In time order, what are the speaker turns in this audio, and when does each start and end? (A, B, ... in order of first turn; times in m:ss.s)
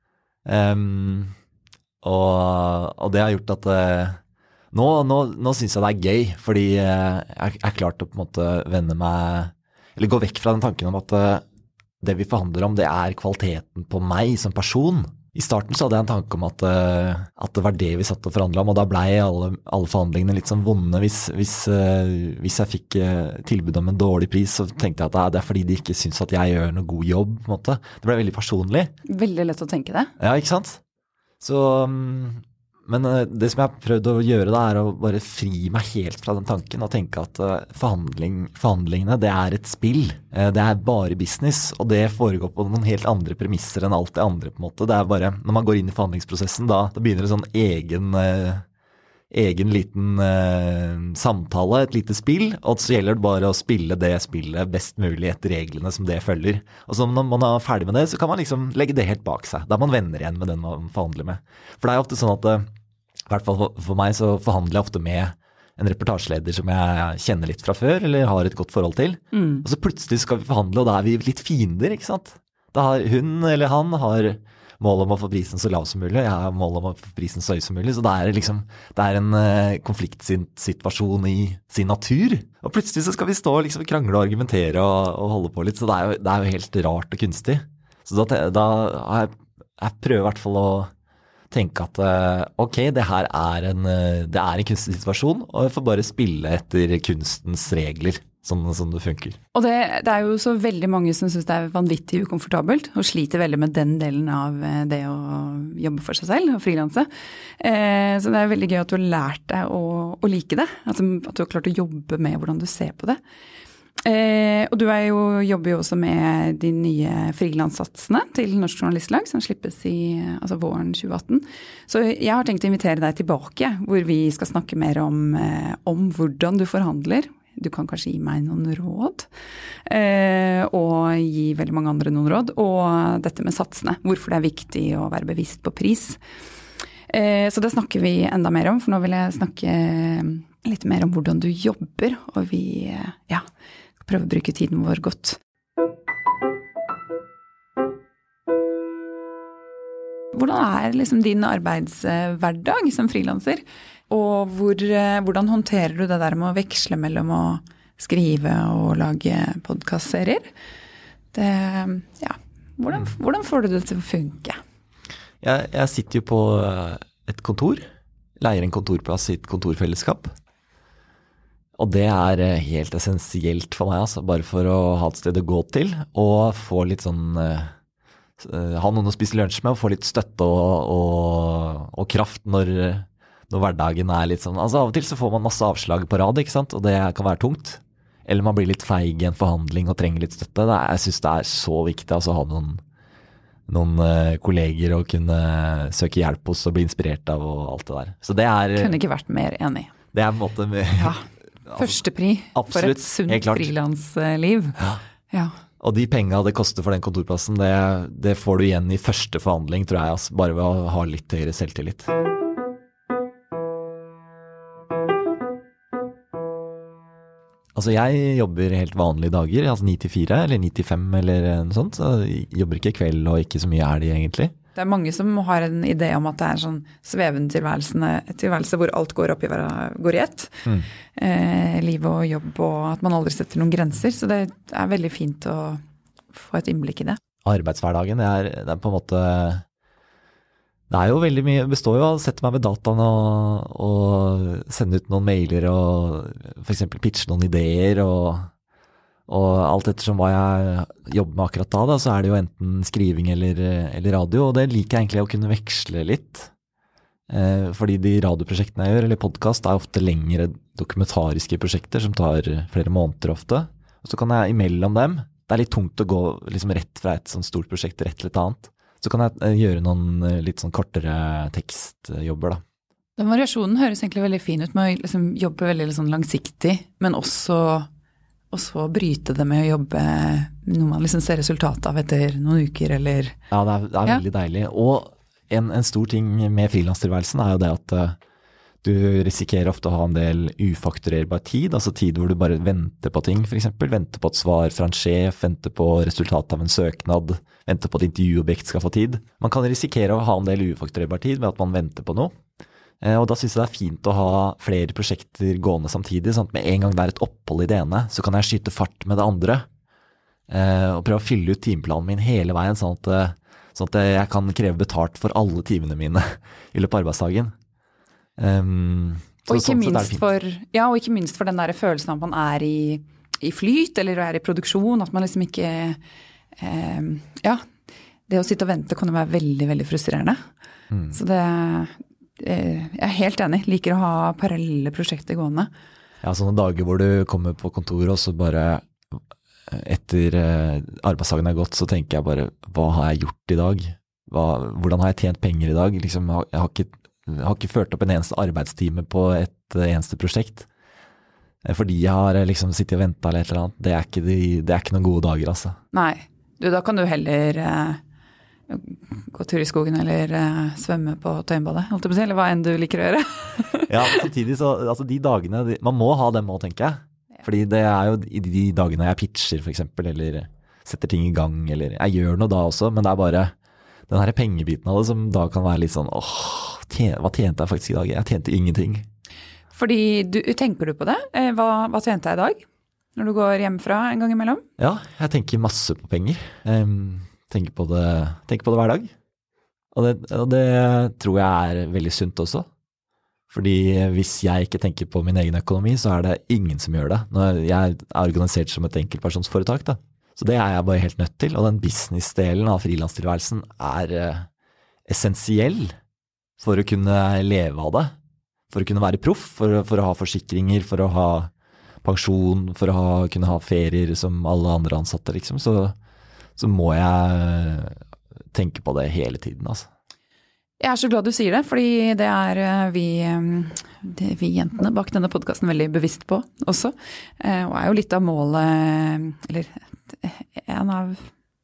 0:00.5-0:01.3 A
0:02.0-0:04.2 A
0:04.7-0:11.4 A
0:12.0-0:28.9 A
0:29.1-0:30.1 B
0:30.2-0:30.8 A
0:31.4-0:48.6 A
0:49.3-1:02.7 A
1:03.3-1:30.9 A
1:09.3-1:09.6 B
1:31.5-1:39.4 A
1:39.5-1:47.1 B
1:47.6-1:53.2 B
1:54.0-2:09.3 B
2:09.9-2:16.2 B
2:17.1-2:23.4 B
2:24.0-2:25.4 B
2:30.3-2:40.5 B
2:41.3-2:44.6 B
2:45.4-2:47.8 A
2:48.4-2:50.3 A
2:51.8-2:57.7 A
2:58.4-3:12.8 A
3:13.7-3:19.0 A
3:18.8-3:19.9 B
3:20.1-3:22.0 A
3:21.0-3:24.8 B
3:22.5-3:23.7 A
3:25.3-3:25.6 B
3:25.8-3:32.1 A
3:37.8-3:44.5 A
3:44.8-3:55.8 B
3:56.3-3:57.2 B
3:57.4-3:59.6 A
4:00.9-4:08.5 A
4:09.3-4:16.5 A
4:17.3-4:32.6 A
4:33.2-4:37.9 B
4:38.5-4:43.3 B
4:43.5-4:48.2 A
4:48.8-5:02.3 A
5:03.0-5:09.7 A
5:10.5-5:17.5 A
5:18.4-5:20.2 A
5:19.5-5:26.0 B
5:26.6-5:27.6 B
5:28.3-5:30.5 B
5:30.9-5:31.2 A
5:31.1-5:35.7 B
5:36.2-5:50.7 A
5:51.6-5:55.8 A
5:55.9-5:58.0 B
5:58.7-6:04.2 B
6:03.9-6:13.5 A
6:14.1-6:19.1 A
6:19.7-6:22.6 B
6:23.2-6:24.6 B
6:24.8-6:29.1 A
6:29.9-6:32.7 A
6:33.5-6:44.5 A
6:45.1-6:45.9 A
6:46.6-6:48.2 A
6:48.7-6:51.5 A
6:52.0-6:56.0 A
6:56.6-6:58.0 A
6:58.5-6:59.9 A
7:00.8-7:11.3 B